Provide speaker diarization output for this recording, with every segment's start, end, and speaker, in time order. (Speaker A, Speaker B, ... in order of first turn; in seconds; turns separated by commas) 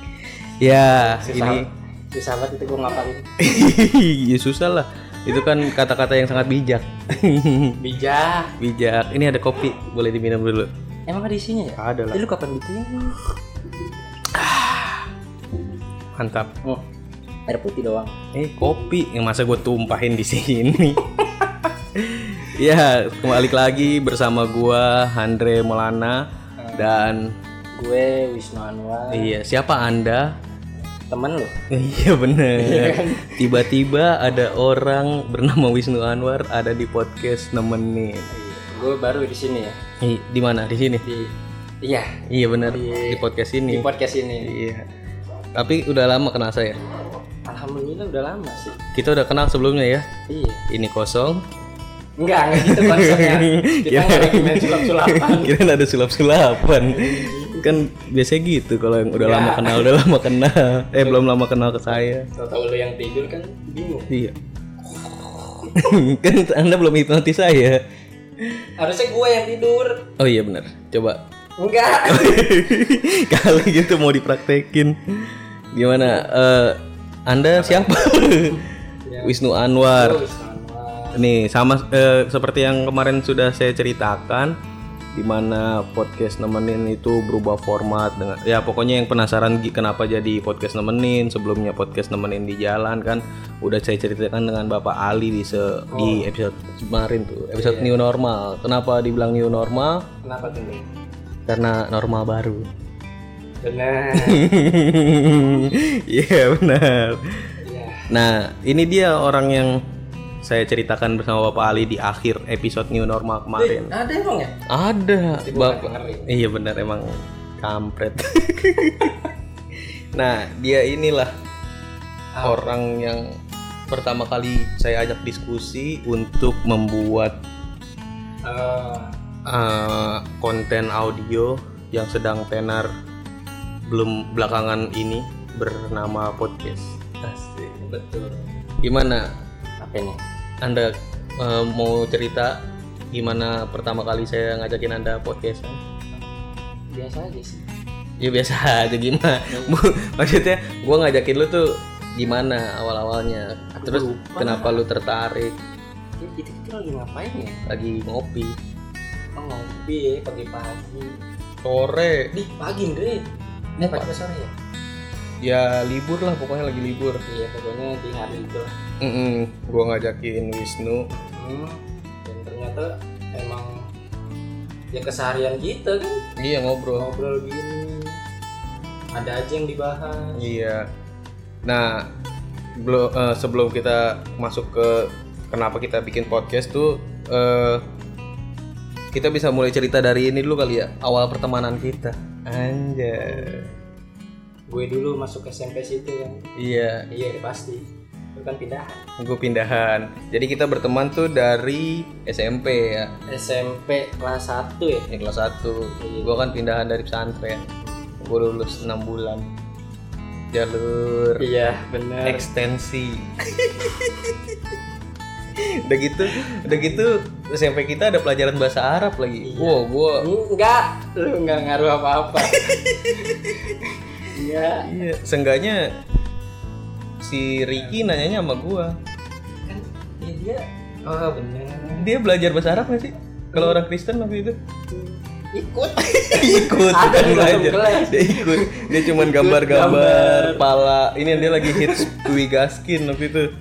Speaker A: 0.6-1.7, Speaker B: 0.8-3.2, Speaker A: 3.4-7.8, Speaker B: 7.8-8.5, Speaker A: 8.6-10.7, Speaker B: 11.1-13.2, Speaker A: 11.8-12.2, Speaker B: 14.3-15.1, Speaker A: 16.2-16.5, Speaker B: 17.5-18.1, Speaker A: 18.3-21.0, Speaker A: 21.9-27.3, Speaker B: 26.6-26.9, Speaker B: 27.7-29.4, Speaker A: 29.1-30.4, Speaker B: 31.1-31.6, Speaker A: 31.7-38.3, Speaker B: 32.5-33.7, Speaker B: 38.3-39.8, Speaker A: 40.0-41.0, Speaker B: 41.0-44.5, Speaker A: 42.3-43.9, Speaker A: 44.4-44.9, Speaker A: 45.5-46.8, Speaker B: 47.5-48.8, Speaker A: 48.9-50.1, Speaker B: 50.3-50.6, Speaker A: 50.7-51.4, Speaker B: 52.2-55.5, Speaker A: 52.5-62.3, Speaker B: 56.7-57.8, Speaker B: 59.2-59.9, Speaker B: 61.0-61.2, Speaker B: 62.3-64.1, Speaker A: 64.1-64.3, Speaker A: 64.9-67.8, Speaker A: 68.4-68.7, Speaker B: 68.8-70.0, Speaker A: 70.2-71.2, Speaker B: 71.6-72.4, Speaker A: 72.0-78.6, Speaker B: 75.9-76.2, Speaker B: 77.5-78.0, Speaker B: 79.0-81.3, Speaker A: 79.2-80.2, Speaker A: 81.1-84.5, Speaker A: 85.1-100.0, Speaker B: 95.9-96.3, Speaker B: 97.5-98.0, Speaker B: 100.2-100.9, Speaker A: 101.5-102.7, Speaker B: 103.6-104.5, Speaker A: 104.1-107.5, Speaker B: 107.6-108.1, Speaker A: 108.1-109.8, Speaker A: 110.4-113.9, Speaker B: 113.6-114.6, Speaker A: 114.7-119.2, Speaker B: 115.3-116.3, Speaker A: 120.1-121.3, Speaker B: 122.3-122.8, Speaker A: 122.4-123.2, Speaker A: 123.9-127.3, Speaker B: 128.4-129.1, Speaker A: 129.4-132.9, Speaker A: 133.8-137.8, Speaker B: 137.8-138.4, Speaker A: 138.8-139.3, Speaker B: 139.8-140.2, Speaker A: 140.6-142.6, Speaker A: 143.1-145.8, Speaker B: 146.9-147.6, Speaker A: 148.2-155.6, Speaker B: 149.5-149.7, Speaker B: 153.7-154.8, Speaker B: 156.2-157.6, Speaker A: 157.7-158.6, Speaker B: 159.3-161.2, Speaker A: 161.6-162.3, Speaker B: 162.3-163.3, Speaker B: 163.8-164.5, Speaker A: 163.8-164.2, Speaker A: 165.4-167.2, Speaker B: 167.3-168.7, Speaker A: 169.0-171.1, Speaker B: 171.1-173.9, Speaker B: 174.9-176.2, Speaker A: 176.3-177.1, Speaker B: 177.0-178.2, Speaker B: 179.1-180.5, Speaker A: 180.3-180.9, Speaker A: 181.7-182.1, Speaker A: 182.8-187.8, Speaker A: 189.1-193.7, Speaker B: 193.1-193.8, Speaker B: 194.7-196.4, Speaker A: 196.6-197.1, Speaker B: 197.1-197.8, Speaker B: 198.3-199.0, Speaker A: 199.2-203.1, Speaker B: 203.3-205.1, Speaker A: 205.1-207.7, Speaker B: 206.0-206.4, Speaker B: 207.8-208.1, Speaker A: 208.2-209.4, Speaker A: 210.5-211.4, Speaker B: 211.4-212.4, Speaker A: 212.2-214.3, Speaker A: 215.5-220.2, Speaker B: 216.2-217.0, Speaker B: 219.4-224.9, Speaker A: 222.4-223.6, Speaker A: 224.8-225.8, Speaker A: 227.2-228.9, Speaker B: 229.7-232.1, Speaker A: 231.8-234.6, Speaker B: 233.5-233.8, Speaker B: 234.9-240.7, Speaker A: 236.0-243.5, Speaker B: 241.3-242.3